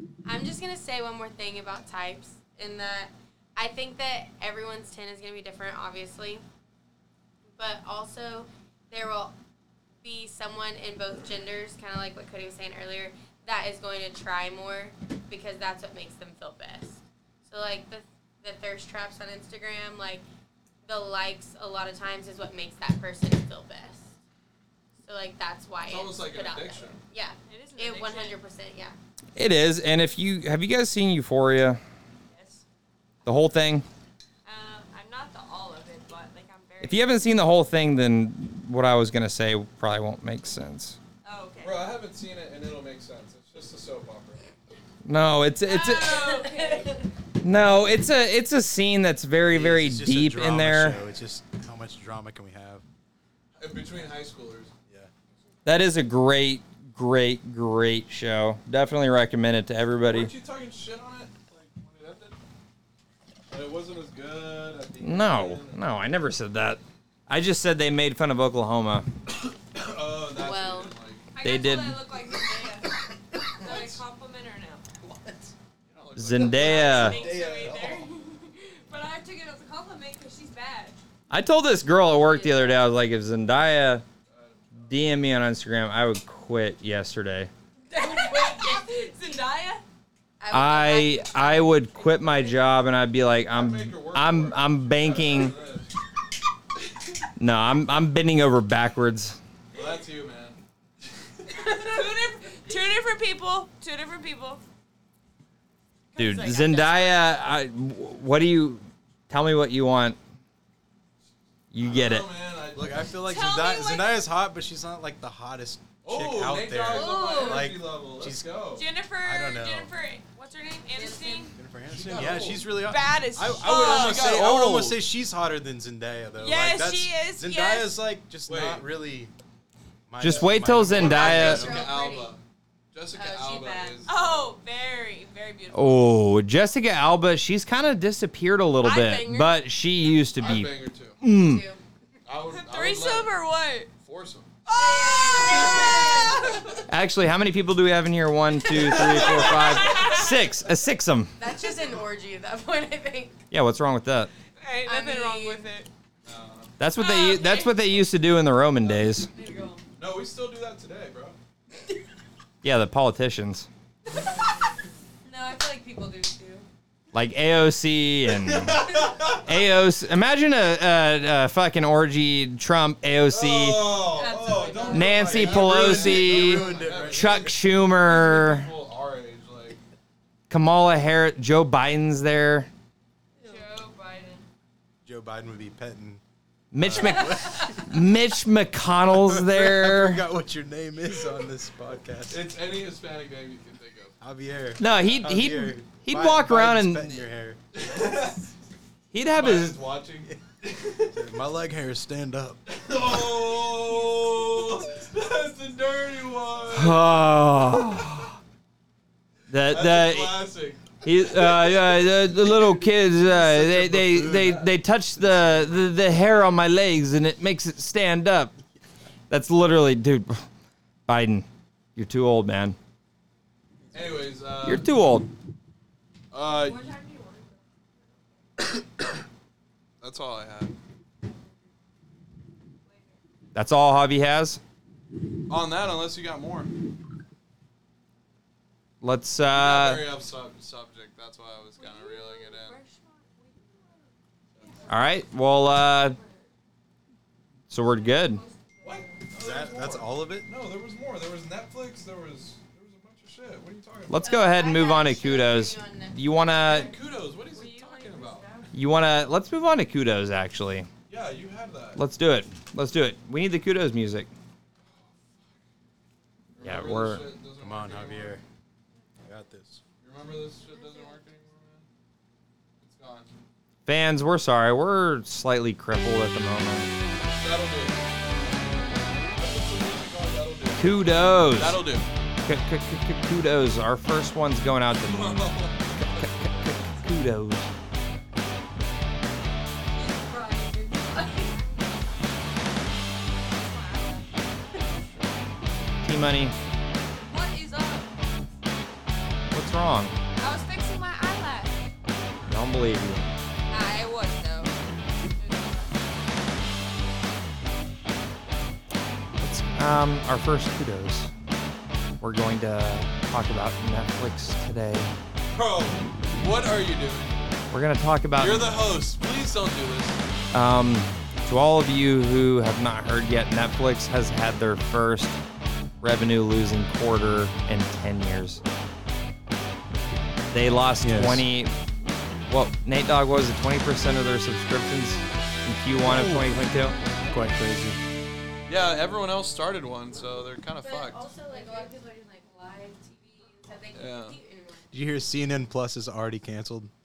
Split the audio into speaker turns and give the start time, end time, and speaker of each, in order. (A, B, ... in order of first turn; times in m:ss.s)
0:00.2-0:06.4 A
0:07.6-0:09.3 A
0:10.0-0:20.2 A
0:20.9-0:24.1 A
0:25.0-0:29.0 A
0:25.9-0:27.0 B
0:27.5-0:28.4 C
0:29.4-0:31.8 D
0:32.3-0:32.6 C
0:33.2-0:33.8 D
0:34.4-0:37.1 C
0:36.8-0:41.0 D
0:41.2-0:41.9 C
0:41.6-0:44.6 B
0:45.0-0:46.3 D
0:45.7-0:47.0 C
0:46.0-0:47.0 A
0:47.4-0:51.0 D
0:49.5-0:52.8 E
0:53.6-0:54.7 B
0:55.6-1:00.3 D
1:00.1-1:02.4 B
1:03.5-1:05.8 B
1:05.0-1:09.1 D
1:09.7-1:11.2 B
1:10.3-1:10.9 A
1:11.3-1:14.8 C
1:11.4-1:12.0 D
1:15.0-1:15.5 E
1:15.9-1:17.4 B
1:16.2-1:17.3 D
1:16.4-1:21.0 C
1:16.7-1:18.1 E
1:21.3-1:24.0 D
1:22.2-1:22.8 A
1:24.3-1:24.8 B
1:24.9-1:27.5 D
1:27.9-1:29.4 A
1:27.9-1:29.8 C
1:30.4-1:32.5 A
1:30.5-1:35.6 D
1:33.5-1:35.9 B
1:37.4-1:39.4 D
1:39.7-1:40.6 B
1:41.6-1:44.6 C
1:46.2-1:47.1 A
1:46.2-1:50.2 D
1:46.2-1:47.2 C
1:51.7-1:52.3 D
1:51.8-1:53.1 B
1:52.7-1:58.5 E
1:53.2-1:54.2 C
1:56.0-1:58.8 B
1:57.0-1:57.6 C
1:57.0-1:57.6 A
1:58.8-2:01.6 C
1:59.2-1:59.9 E
2:00.9-2:01.5 A
2:01.6-2:09.3 E
2:01.9-2:02.7 B
2:02.3-2:04.4 C
2:03.6-2:05.0 B
2:06.4-2:08.0 C
2:08.5-2:08.8 B
2:10.1-2:11.8 E
2:10.2-2:11.7 D
2:10.4-2:12.4 B
2:11.0-2:11.8 C
2:11.0-2:12.4 A
2:12.9-2:14.5 B
2:13.1-2:14.0 A
2:14.1-2:16.1 C
2:15.7-2:21.6 D
2:18.8-2:19.6 C
2:20.4-2:21.2 B
2:21.2-2:21.8 A
2:22.2-2:23.3 B
2:22.5-2:23.9 C
2:24.0-2:24.5 B
2:24.7-2:26.8 C
2:24.8-2:26.8 A
2:25.5-2:25.9 B
2:26.9-2:31.4 D
2:28.7-2:30.4 C
2:28.9-2:29.9 B
2:31.4-2:33.4 A
2:33.5-2:34.3 D
2:34.6-2:35.9 C
2:34.8-2:35.7 A
2:36.2-2:36.7 B
2:36.8-2:39.3 D
2:37.0-2:37.8 C
2:39.4-2:39.8 A
2:39.4-2:39.7 C
2:40.0-2:41.4 B
2:42.6-2:43.7 D
2:45.2-2:46.6 A
2:47.1-2:54.0 D
2:48.4-2:49.4 B
2:53.3-2:59.8 B
2:54.1-2:55.2 A
2:54.9-2:58.7 D
2:55.3-2:57.6 E
3:00.5-3:02.7 D
3:03.4-3:04.4 C
3:05.0-3:06.2 E
3:06.7-3:10.2 D
3:06.8-3:07.9 E
3:07.0-3:07.3 A
3:09.1-3:12.5 E
3:12.3-3:14.1 B
3:14.2-3:17.6 E
3:14.8-3:17.2 D
3:17.7-3:18.5 B
3:19.1-3:19.8 D
3:19.4-3:21.2 B
3:21.1-3:22.6 E
3:22.7-3:27.0 B
3:26.7-3:28.4 D
3:29.5-3:30.4 D
3:29.7-3:32.2 B
3:31.0-3:38.5 D
3:33.3-3:35.8 E
3:39.3-3:40.5 D
3:41.1-3:42.8 D
3:43.9-3:44.9 B
3:44.6-3:45.3 D
3:46.3-3:46.9 B
3:46.4-3:47.6 C
3:50.0-3:50.8 B
3:52.8-3:53.2 C
3:53.5-3:54.6 D
3:55.5-3:56.7 B
3:59.0-4:00.1 D
3:59.5-4:02.8 B
4:01.8-4:04.1 C
4:04.6-4:06.5 C
4:04.9-4:06.2 D
4:07.7-4:08.4 D
4:07.8-4:09.2 C
4:08.8-4:14.2 B
4:09.3-4:10.5 E
4:14.1-4:16.9 D
4:14.2-4:16.9 A
4:16.6-4:18.5 B
4:17.5-4:18.7 C
4:18.7-4:20.9 D
4:21.1-4:22.0 B
4:22.0-4:24.3 D
4:26.6-4:28.4 B
4:26.6-4:27.2 D
4:27.6-4:28.4 E
4:29.2-4:29.8 E
4:30.0-4:31.9 B
4:30.7-4:31.1 A
4:32.8-4:33.3 B
4:33.9-4:36.9 D
4:37.2-4:42.1 B
4:40.8-4:41.8 D
4:42.4-4:47.7 D
4:45.0-4:46.7 B
4:50.0-4:52.6 C
4:50.1-4:51.6 A
4:53.2-4:54.4 C
4:56.0-4:56.6 D
4:57.2-4:58.2 C
4:59.5-5:00.1 D
5:00.4-5:01.9 C
5:02.5-5:03.3 D
5:03.7-5:04.8 C
5:05.4-5:06.0 C
5:09.4-5:11.3 D
5:12.2-5:15.1 D
5:15.5-5:17.6 B
5:17.7-5:18.8 D
5:18.4-5:20.2 B
5:20.5-5:25.4 D
5:26.0-5:28.6 D
5:30.5-5:31.7 D
5:31.0-5:31.5 E
5:32.5-5:37.0 D
5:36.0-5:36.6 E
5:37.3-5:38.0 E
5:38.7-5:41.2 B
5:40.8-5:44.9 A
5:41.5-5:41.9 C
5:44.0-5:44.4 B
5:44.9-5:46.9 E